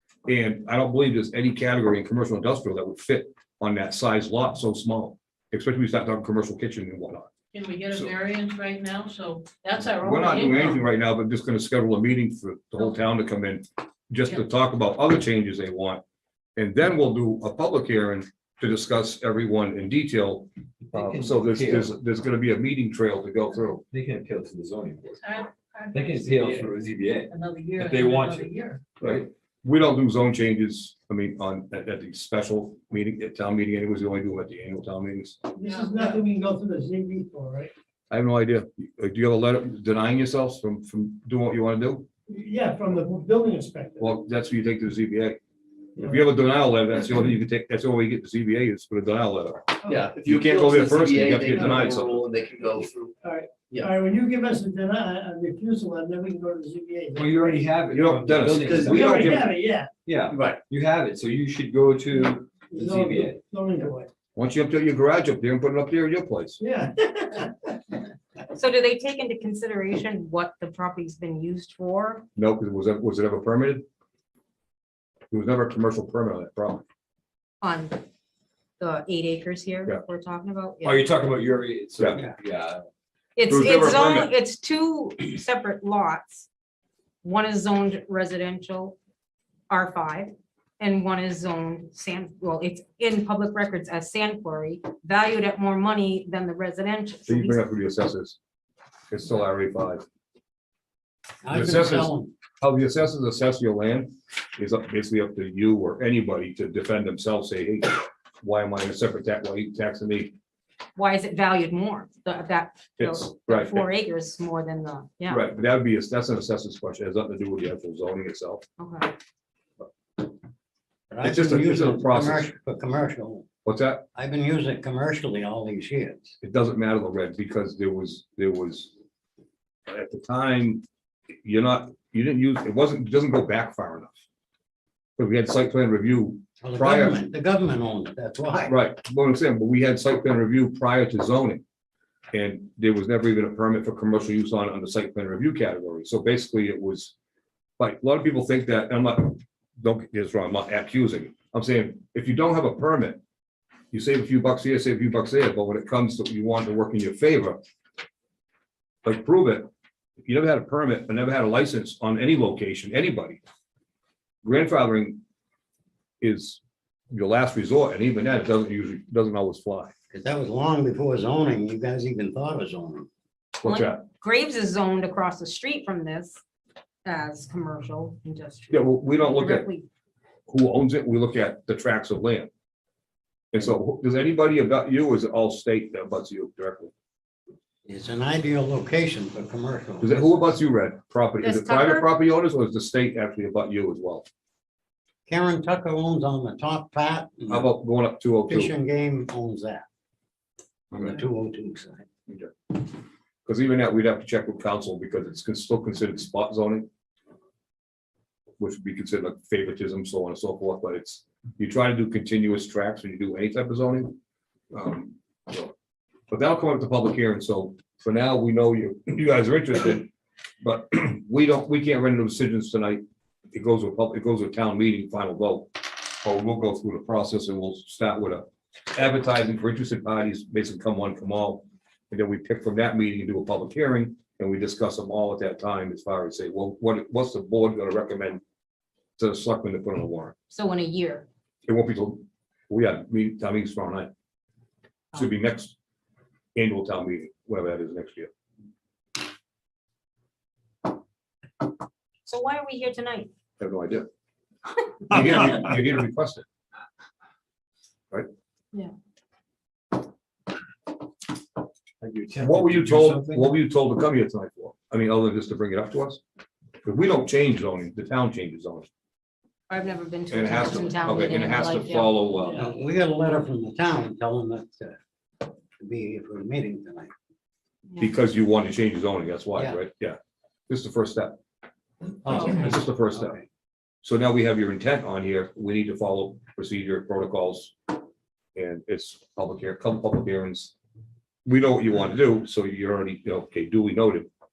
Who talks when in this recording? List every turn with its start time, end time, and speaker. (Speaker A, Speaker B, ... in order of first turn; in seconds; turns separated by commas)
Speaker A: 0.3-7.3, Speaker B: 7.5-10.8, Speaker A: 10.0-16.0, Speaker A: 16.6-23.8, Speaker C: 20.9-21.9, Speaker C: 23.9-25.2, Speaker B: 25.2-28.8, Speaker C: 25.9-29.3, Speaker A: 29.0-35.4, Speaker D: 35.5-37.7, Speaker A: 38.1-42.0, Speaker D: 42.3-44.2, Speaker A: 44.0-45.4, Speaker D: 46.0-46.3, Speaker A: 46.0-49.7, Speaker E: 49.9-53.1, Speaker A: 50.3-52.2, Speaker D: 53.2-57.7, Speaker C: 57.1-59.2, Speaker A: 57.9-59.5, Speaker E: 58.3-59.3, Speaker D: 59.0-59.9, Speaker C: 60.0-63.4, Speaker E: 60.3-60.6, Speaker D: 62.7-64.1, Speaker A: 64.3-66.6, Speaker D: 66.6-67.8, Speaker F: 68.5-72.2, Speaker A: 72.3-73.8, Speaker A: 75.3-76.8, Speaker F: 77.6-78.0, Speaker F: 78.8-81.1, Speaker C: 80.8-82.8, Speaker F: 83.3-86.5, Speaker A: 83.5-84.3, Speaker F: 87.2-89.0, Speaker F: 89.7-97.6, Speaker A: 97.3-98.4, Speaker A: 99.1-100.0, Speaker G: 101.4-102.3, Speaker A: 101.5-110.3, Speaker F: 111.0-115.4, Speaker A: 113.0-113.9, Speaker A: 115.3-118.6, Speaker F: 118.8-119.1, Speaker G: 121.1-123.5, Speaker A: 121.2-122.5, Speaker A: 123.6-124.0, Speaker G: 124.1-126.3, Speaker A: 126.4-128.9, Speaker A: 129.9-130.8, Speaker A: 131.4-134.1, Speaker A: 135.2-137.2, Speaker G: 136.6-138.8, Speaker A: 138.7-141.6, Speaker A: 142.3-147.1, Speaker A: 147.8-153.2, Speaker A: 153.9-157.6, Speaker A: 159.1-159.7, Speaker A: 160.2-163.4, Speaker A: 164.4-165.2, Speaker A: 166.2-169.9, Speaker G: 170.1-173.1, Speaker A: 173.6-174.0, Speaker F: 173.6-176.4, Speaker F: 177.1-179.9, Speaker A: 178.7-179.7, Speaker A: 180.5-182.5, Speaker A: 183.5-186.9, Speaker G: 187.9-190.4, Speaker A: 190.0-194.2, Speaker F: 191.4-192.1, Speaker G: 195.3-197.7, Speaker A: 197.5-198.7, Speaker G: 198.5-199.8, Speaker G: 200.9-202.1, Speaker A: 202.3-202.8, Speaker A: 203.5-206.9, Speaker A: 208.6-214.2, Speaker A: 214.7-215.7, Speaker A: 216.3-220.1, Speaker A: 220.6-238.4, Speaker A: 239.2-240.3, Speaker F: 240.5-241.2, Speaker A: 241.7-244.1, Speaker A: 245.1-245.8, Speaker A: 246.6-248.3, Speaker F: 252.3-253.3, Speaker A: 253.6-254.1, Speaker A: 255.1-256.4, Speaker C: 262.0-263.5, Speaker A: 262.4-266.2, Speaker A: 266.8-268.9, Speaker F: 269.7-272.1, Speaker A: 270.3-272.7, Speaker G: 272.5-274.9, Speaker G: 275.8-277.1, Speaker A: 278.0-280.2, Speaker A: 280.7-281.4, Speaker A: 282.2-283.4, Speaker G: 282.2-282.8, Speaker F: 282.3-282.7, Speaker A: 284.0-287.8, Speaker A: 288.6-290.8, Speaker A: 291.4-294.3